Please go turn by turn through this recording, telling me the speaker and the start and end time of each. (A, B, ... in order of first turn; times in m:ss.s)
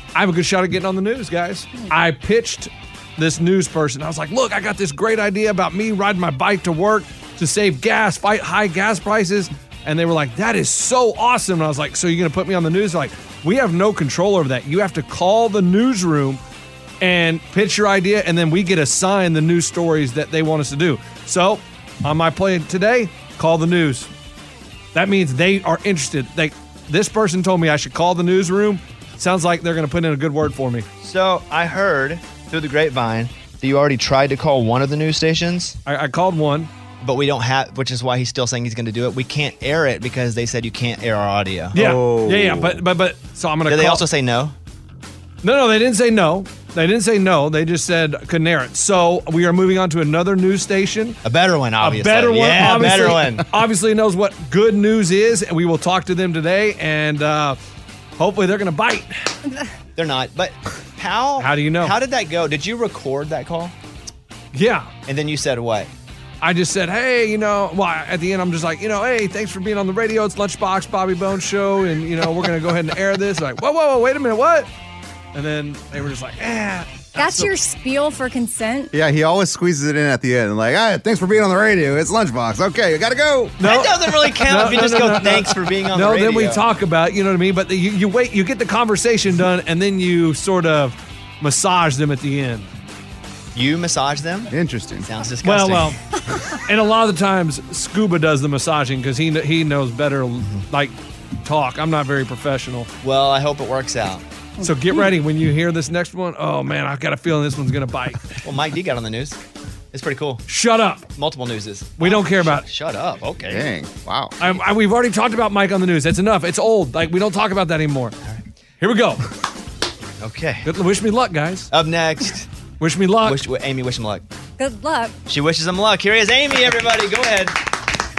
0:00.2-0:16.4 A
0:17.0-0:24.1 A
0:24.9-0:30.9 A
0:31.0-0:35.8 B
0:35.9-0:36.7 A
0:37.0-0:41.8 B
0:41.8-0:42.8 C
0:41.8-0:44.0 A
0:43.7-0:44.5 B
0:45.4-0:51.2 A
0:51.2-0:53.4 B
0:51.8-0:57.6 A
0:58.2-0:59.1 A
1:00.0-1:03.7 B
1:01.4-1:02.0 A
1:04.5-1:04.9 A
1:05.1-1:05.9 B
1:06.4-1:14.7 A
1:15.3-1:17.5 A
1:17.2-1:18.9 D
1:18.9-1:23.6 C
1:23.6-1:32.7 A
1:23.6-1:26.6 B
1:33.6-1:34.5 B
1:34.5-1:35.1 C
1:35.0-1:36.0 B
1:35.4-1:36.0 A
1:36.6-1:42.9 A
1:43.0-1:44.2 B
1:44.6-1:45.0 D
1:44.6-1:48.4 A
1:48.4-1:49.4 B
1:49.9-1:50.4 B
1:50.5-1:51.1 A
1:51.1-1:53.7 B
1:52.0-1:52.6 A
1:53.5-1:54.4 C
1:54.4-1:58.2 A
1:58.8-1:59.2 A
2:00.2-2:00.7 B
2:00.7-2:01.7 A
2:01.7-2:02.5 B
2:02.8-2:03.4 A
2:03.2-2:04.2 B
2:04.6-2:05.2 D
2:05.3-2:07.6 B